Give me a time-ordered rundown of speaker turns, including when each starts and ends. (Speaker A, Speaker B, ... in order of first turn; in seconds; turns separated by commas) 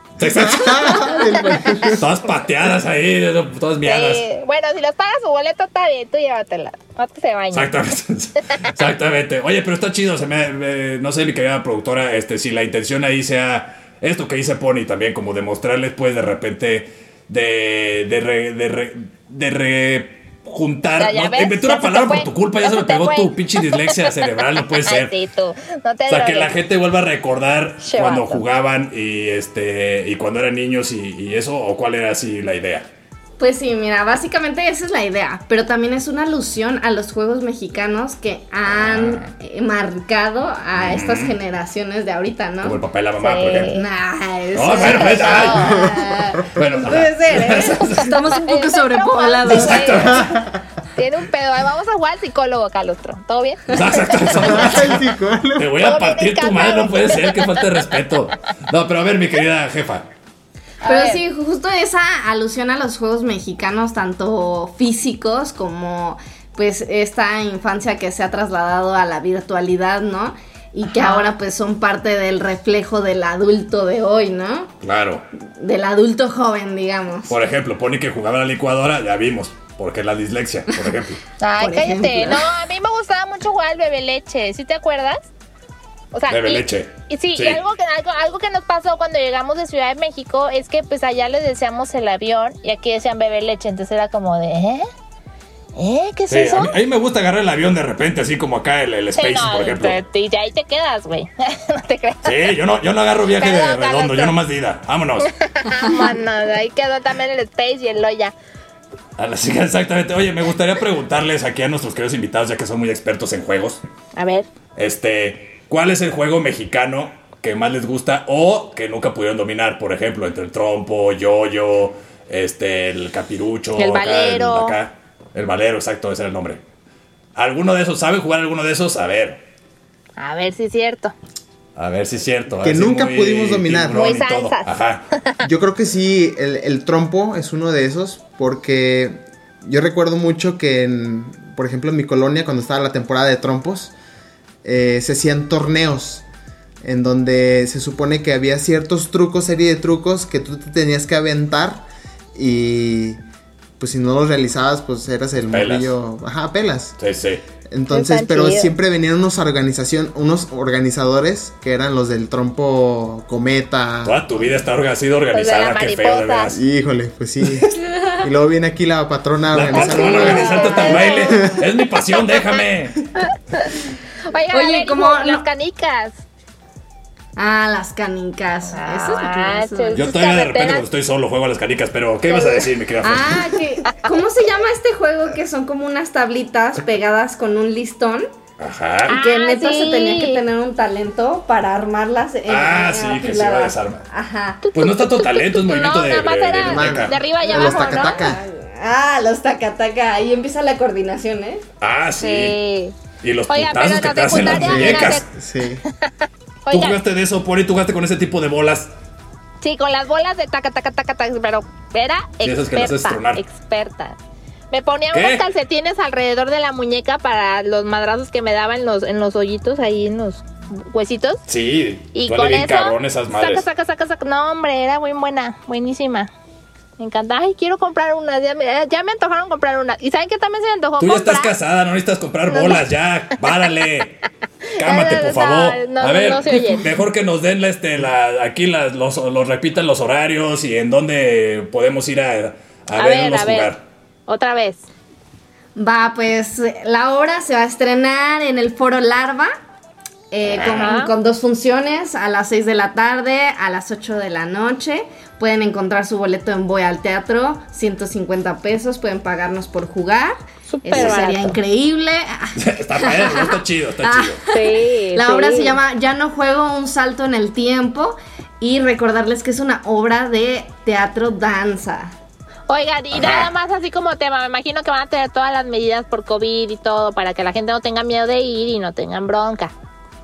Speaker A: 0.2-1.2, Speaker B: 0.3-2.1, Speaker C: 0.8-1.3, Speaker A: 1.9-4.2, Speaker C: 3.8-7.8, Speaker A: 7.5-25.1, Speaker C: 21.0-24.1, Speaker C: 24.8-26.5, Speaker A: 26.1-32.9, Speaker C: 27.8-28.4, Speaker D: 33.4-42.8, Speaker A: 38.7-39.3, Speaker A: 40.7-41.4, Speaker A: 42.6-43.7, Speaker C: 43.2-43.9, Speaker D: 43.7-49.9, Speaker A: 44.5-45.8, Speaker C: 44.8-46.4, Speaker B: 45.6-46.4, Speaker A: 46.5-48.4, Speaker C: 47.6-50.4, Speaker A: 49.5-50.3, Speaker B: 50.0-50.6, Speaker C: 51.0-54.6, Speaker A: 53.7-60.0, Speaker B: 54.3-55.8, Speaker C: 55.8-57.5, Speaker C: 60.8-61.2, Speaker D: 60.9-74.7, Speaker C: 70.9-71.3, Speaker A: 74.8-75.2, Speaker D: 75.6-77.4, Speaker A: 77.3-81.2, Speaker C: 81.4-85.2, Speaker D: 81.6-82.5, Speaker C: 86.1-94.9, Speaker A: 86.3-87.6, Speaker C: 95.8-96.7, Speaker A: 96.3-100.0, Speaker C: 99.2-102.6, Speaker A: 102.2-105.3, Speaker C: 103.3-104.3, Speaker C: 105.3-108.3, Speaker A: 109.2-113.8, Speaker C: 114.2-114.5, Speaker A: 114.8-126.6, Speaker C: 123.8-124.7, Speaker A: 127.3-129.4, Speaker C: 130.2-131.1, Speaker A: 131.8-135.1, Speaker B: 132.6-134.2, Speaker C: 133.9-134.7, Speaker B: 135.4-143.9, Speaker B: 144.6-146.2, Speaker B: 146.8-153.2, Speaker B: 153.8-156.9, Speaker A: 155.5-155.9, Speaker A: 157.0-157.4, Speaker B: 157.7-164.6, Speaker C: 157.9-158.7, Speaker A: 164.0-166.6, Speaker C: 165.3-166.5, Speaker B: 166.5-171.6, Speaker A: 169.5-173.0, Speaker C: 169.8-171.5, Speaker C: 173.2-173.7, Speaker C: 174.3-176.2, Speaker D: 174.5-175.4, Speaker D: 177.4-180.0, Speaker C: 178.7-180.8, Speaker A: 179.9-183.6, Speaker D: 183.0-188.3, Speaker A: 188.6-189.2, Speaker C: 189.1-190.4, Speaker D: 189.1-194.6, Speaker A: 192.5-194.0, Speaker C: 194.6-198.3, Speaker A: 194.7-197.2, Speaker B: 196.6-198.4, Speaker D: 197.4-201.6, Speaker A: 201.8-202.6, Speaker C: 202.2-202.9, Speaker A: 203.2-205.2, Speaker C: 203.5-205.3, Speaker B: 204.5-205.8, Speaker C: 206.0-207.0, Speaker A: 206.7-208.9, Speaker C: 209.6-214.2, Speaker A: 212.4-213.4, Speaker C: 214.7-221.4, Speaker A: 215.1-215.4, Speaker A: 221.5-223.7, Speaker C: 222.1-226.3, Speaker C: 227.0-231.5, Speaker A: 231.0-234.2, Speaker C: 232.5-232.8, Speaker A: 234.8-243.8, Speaker C: 234.8-236.9, Speaker C: 242.9-243.7, Speaker C: 244.3-244.9, Speaker D: 245.8-249.5, Speaker D: 250.3-272.1, Speaker A: 250.4-251.0, Speaker C: 250.7-251.1, Speaker C: 260.7-261.6, Speaker A: 260.9-261.3, Speaker A: 262.6-264.4, Speaker C: 264.5-265.8, Speaker C: 272.7-279.7, Speaker A: 273.1-273.5